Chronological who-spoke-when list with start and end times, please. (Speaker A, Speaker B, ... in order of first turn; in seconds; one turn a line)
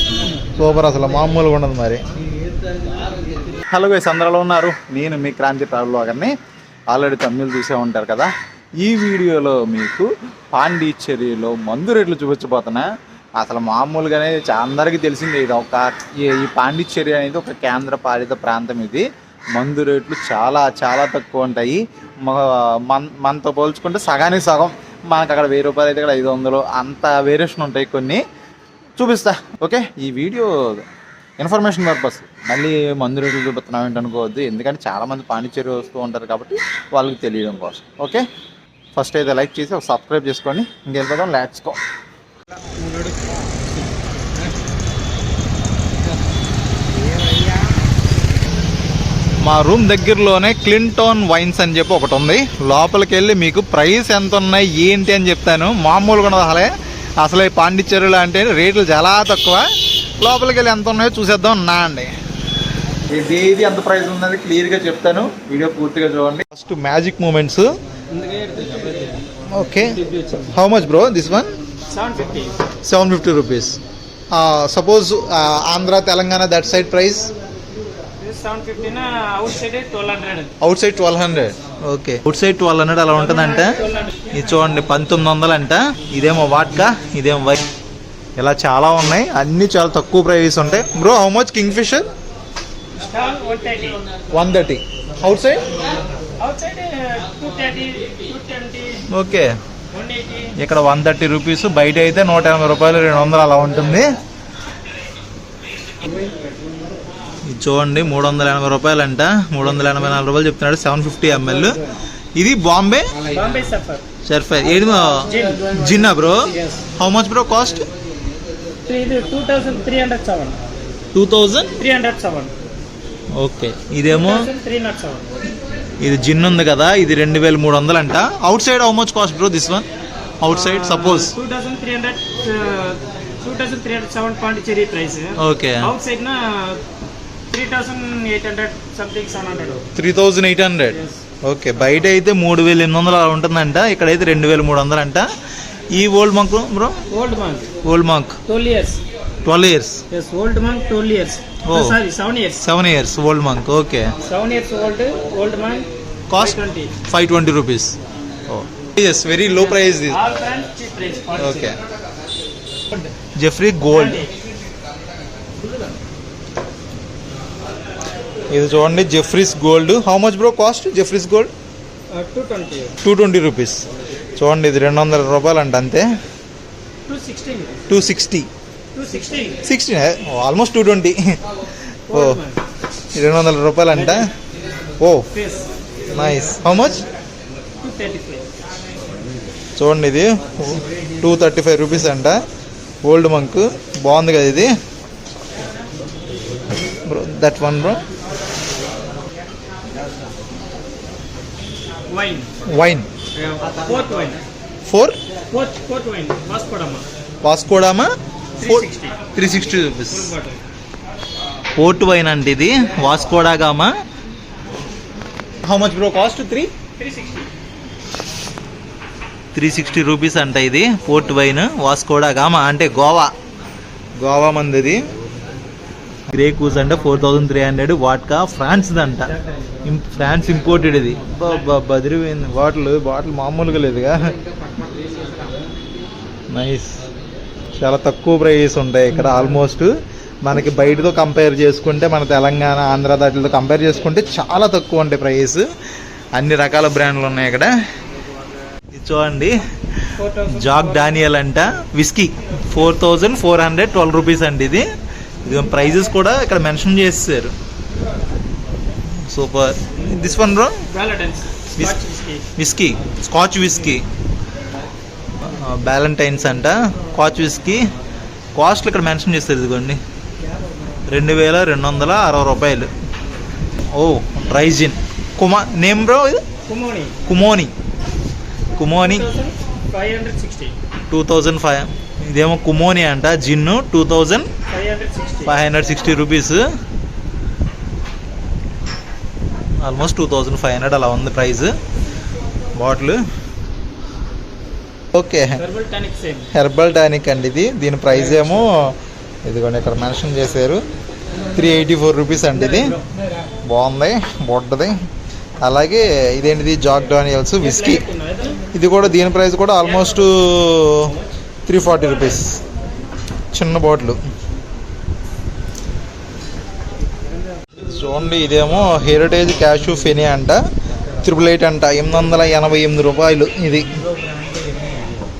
Speaker A: 0.6-2.0
Speaker A: 3.7-6.3
Speaker A: 6.9-28.2
Speaker A: 29.0-30.9
Speaker A: 31.4-38.2
Speaker A: 38.9-41.8
Speaker B: 42.8-43.3
Speaker A: 49.4-59.6
Speaker A: 60.2-62.1
Speaker A: 63.1-67.7
Speaker B: 68.1-69.2
Speaker A: 69.5-69.9
Speaker B: 69.8-70.5
Speaker A: 70.5-71.5
Speaker B: 71.9-72.6
Speaker A: 72.8-73.8
Speaker A: 74.3-77.3
Speaker B: 78.2-80.5
Speaker A: 80.6-87.6
Speaker B: 83.1-84.3
Speaker A: 88.4-92.1
Speaker B: 93.0-94.0
Speaker A: 94.3-95.6
Speaker B: 96.4-99.1
Speaker A: 99.1-99.5
Speaker B: 99.9-100.6
Speaker A: 100.5-104.1
Speaker A: 107.5-111.8
Speaker A: 112.3-113.1
Speaker B: 113.3-114.0
Speaker A: 114.2-117.9
Speaker B: 115.2-116.8
Speaker B: 118.8-120.6
Speaker A: 121.1-121.7
Speaker B: 121.8-122.5
Speaker A: 123.4-124.5
Speaker B: 124.0-125.4
Speaker A: 126.0-129.8
Speaker A: 130.4-131.3
Speaker B: 130.5-136.8
Speaker A: 135.4-135.9
Speaker B: 137.5-139.9
Speaker A: 139.9-145.3
Speaker B: 140.9-141.2
Speaker A: 145.9-147.0
Speaker B: 147.1-147.7
Speaker A: 147.8-148.4
Speaker B: 148.5-149.0
Speaker A: 149.4-150.0
Speaker B: 150.1-152.7
Speaker A: 151.6-152.0
Speaker A: 152.6-154.1
Speaker B: 154.2-156.9
Speaker A: 156.3-157.9
Speaker A: 158.5-160.2
Speaker B: 159.9-161.8
Speaker A: 161.4-161.8
Speaker A: 163.4-164.3
Speaker B: 163.9-164.3
Speaker A: 168.5-171.5
Speaker B: 172.1-173.0
Speaker A: 173.0-173.8
Speaker A: 174.4-176.1
Speaker B: 177.1-177.9
Speaker A: 177.9-178.5
Speaker B: 178.9-179.6
Speaker A: 179.6-181.2
Speaker A: 182.1-182.4
Speaker B: 182.1-182.6
Speaker A: 183.1-184.3
Speaker B: 183.9-184.2
Speaker A: 185.0-185.3
Speaker B: 185.3-185.7
Speaker A: 186.1-187.1
Speaker B: 187.8-188.5
Speaker A: 189.8-192.4
Speaker A: 193.0-194.7
Speaker A: 197.1-198.0
Speaker B: 202.1-202.5
Speaker A: 202.7-203.1
Speaker B: 203.3-204.4
Speaker A: 204.9-205.2
Speaker B: 205.5-207.1
Speaker A: 207.4-208.1
Speaker B: 208.6-209.2
Speaker A: 208.6-210.3
Speaker B: 209.9-210.6
Speaker A: 211.8-213.9
Speaker A: 215.7-216.7
Speaker B: 217.0-217.5
Speaker A: 219.5-223.3
Speaker A: 224.2-225.0
Speaker A: 226.3-234.3
Speaker A: 236.5-237.0
Speaker A: 237.8-239.9
Speaker A: 240.4-245.6
Speaker A: 246.3-247.7
Speaker A: 248.9-254.8
Speaker B: 250.2-251.2
Speaker A: 255.4-257.5
Speaker A: 259.2-260.8
Speaker B: 260.9-262.5
Speaker A: 262.6-264.0
Speaker A: 265.4-267.9
Speaker A: 268.6-270.0
Speaker A: 271.1-272.9
Speaker A: 273.9-276.4
Speaker B: 276.7-277.2
Speaker A: 277.2-277.7
Speaker A: 278.8-279.3
Speaker B: 279.0-280.8
Speaker A: 281.1-284.5
Speaker B: 284.7-285.5
Speaker A: 285.4-286.6
Speaker A: 289.8-291.7
Speaker A: 292.8-293.2
Speaker A: 295.1-295.6
Speaker B: 295.5-296.5
Speaker A: 296.5-298.9
Speaker A: 299.4-300.8
Speaker A: 301.5-303.0
Speaker A: 303.6-304.9
Speaker A: 305.6-308.0
Speaker B: 307.6-308.6
Speaker A: 308.7-311.1
Speaker A: 311.6-312.6
Speaker A: 313.5-314.2
Speaker A: 317.8-320.6
Speaker A: 321.2-323.9